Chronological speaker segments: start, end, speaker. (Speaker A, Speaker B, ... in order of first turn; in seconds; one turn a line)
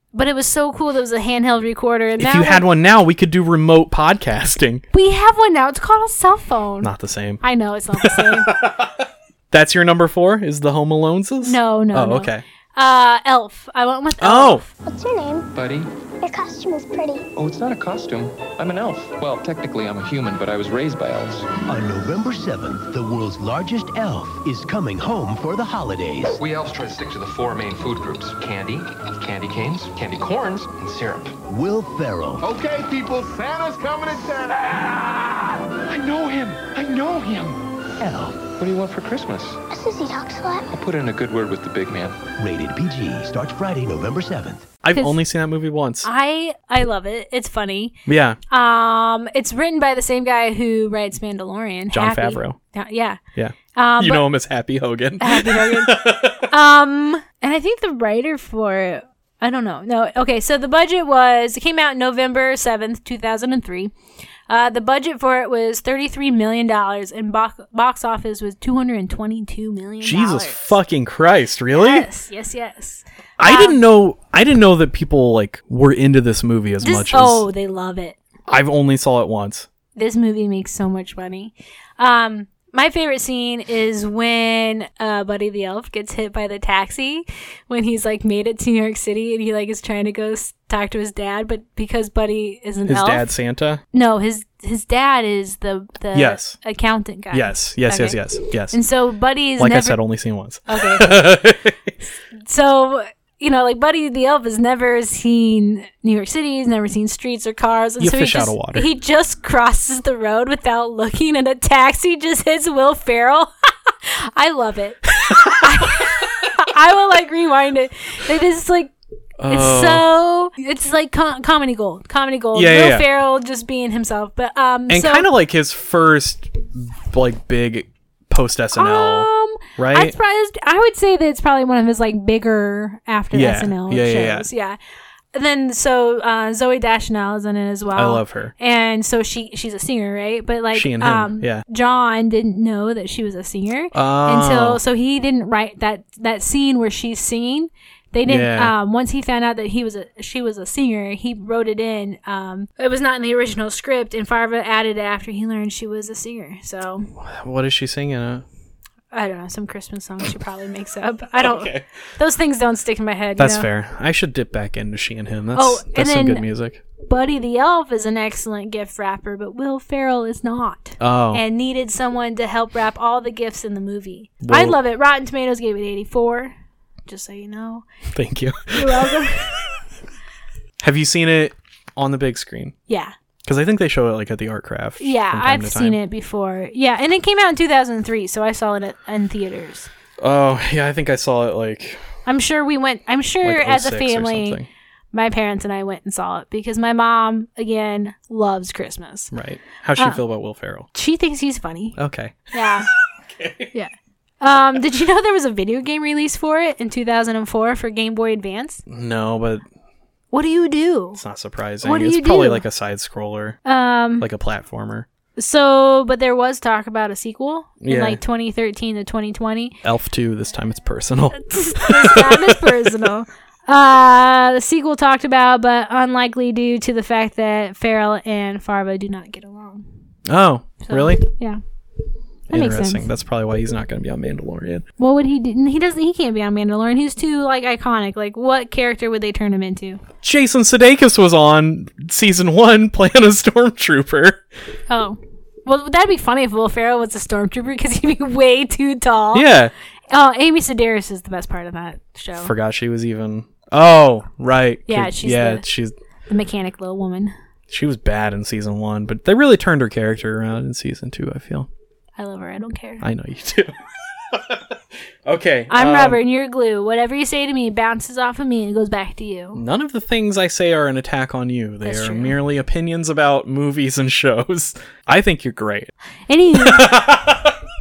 Speaker A: 0.1-2.6
Speaker B: 2.2-4.8
Speaker A: 4.9-6.9
Speaker B: 6.8-7.4
Speaker A: 7.4-8.5
Speaker B: 8.0-12.4
Speaker A: 11.4-14.7
Speaker B: 14.2-14.6
Speaker C: 14.8-15.5
Speaker D: 15.5-15.9
Speaker C: 16.2-17.2
Speaker D: 17.4-21.5
Speaker E: 21.7-26.4
Speaker D: 26.4-31.4
Speaker E: 31.5-32.4
Speaker F: 32.4-35.5
Speaker D: 35.9-37.6
Speaker E: 38.0-38.4
Speaker D: 38.6-39.6
Speaker C: 39.7-40.7
Speaker D: 40.7-42.2
Speaker E: 42.4-44.7
Speaker B: 44.8-46.1
Speaker A: 44.9-45.2
Speaker A: 46.0-48.0
Speaker B: 48.1-48.4
Speaker A: 48.5-53.2
Speaker B: 51.9-52.6
Speaker B: 53.4-56.5
Speaker A: 53.8-54.2
Speaker A: 55.2-63.9
Speaker A: 64.5-70.8
Speaker B: 70.0-72.1
Speaker A: 71.7-73.8
Speaker B: 73.4-77.5
Speaker A: 76.8-78.2
Speaker B: 78.5-79.7
Speaker A: 80.0-93.3
Speaker B: 92.8-93.8
Speaker A: 93.9-98.2
Speaker B: 96.1-96.6
Speaker B: 97.3-98.8
Speaker A: 98.7-100.0
Speaker B: 99.6-101.9
Speaker A: 100.7-101.4
Speaker A: 102.4-118.9
Speaker B: 108.0-108.9
Speaker B: 115.2-116.0
Speaker B: 119.4-120.1
Speaker A: 119.5-125.3
Speaker B: 122.5-123.0
Speaker B: 124.9-130.2
Speaker A: 128.8-134.8
Speaker B: 133.3-134.5
Speaker A: 135.3-157.1
Speaker B: 137.9-138.5
Speaker B: 140.7-141.6
Speaker B: 143.9-144.8
Speaker B: 148.2-148.7
Speaker B: 157.2-158.5
Speaker A: 159.1-163.7
Speaker B: 161.4-161.9
Speaker B: 163.4-166.8
Speaker A: 165.5-166.5
Speaker A: 167.0-176.5
Speaker B: 171.0-171.4
Speaker B: 174.4-174.8
Speaker A: 177.1-177.8
Speaker B: 178.1-179.2
Speaker A: 178.7-179.6
Speaker B: 180.8-182.8
Speaker A: 182.9-183.1
Speaker B: 183.4-186.0
Speaker A: 185.0-189.9
Speaker B: 190.2-192.0
Speaker A: 192.2-194.6
Speaker B: 193.4-194.7
Speaker A: 195.1-199.3
Speaker B: 199.3-200.9
Speaker A: 200.9-202.0
Speaker B: 202.0-203.7
Speaker A: 202.5-202.9
Speaker A: 203.7-208.8
Speaker B: 208.9-209.7
Speaker A: 210.3-211.2
Speaker B: 211.2-213.6
Speaker A: 211.8-212.7
Speaker A: 213.7-214.3
Speaker B: 214.2-215.1
Speaker A: 215.4-219.8
Speaker B: 217.8-218.2
Speaker B: 219.8-223.1
Speaker A: 221.4-229.8
Speaker B: 230.2-231.3
Speaker A: 230.8-231.6
Speaker A: 232.5-233.1
Speaker B: 232.5-234.8
Speaker A: 235.0-240.0
Speaker B: 240.2-244.4
Speaker A: 244.9-249.5
Speaker B: 249.3-249.7
Speaker A: 250.1-252.5
Speaker B: 252.4-255.9
Speaker A: 254.9-255.6
Speaker A: 256.3-257.3
Speaker B: 257.7-261.7
Speaker A: 262.2-263.0
Speaker B: 263.0-263.8
Speaker B: 264.3-266.2
Speaker A: 265.7-269.6
Speaker B: 269.5-275.9
Speaker A: 271.8-272.4
Speaker A: 276.3-277.0
Speaker B: 276.5-277.6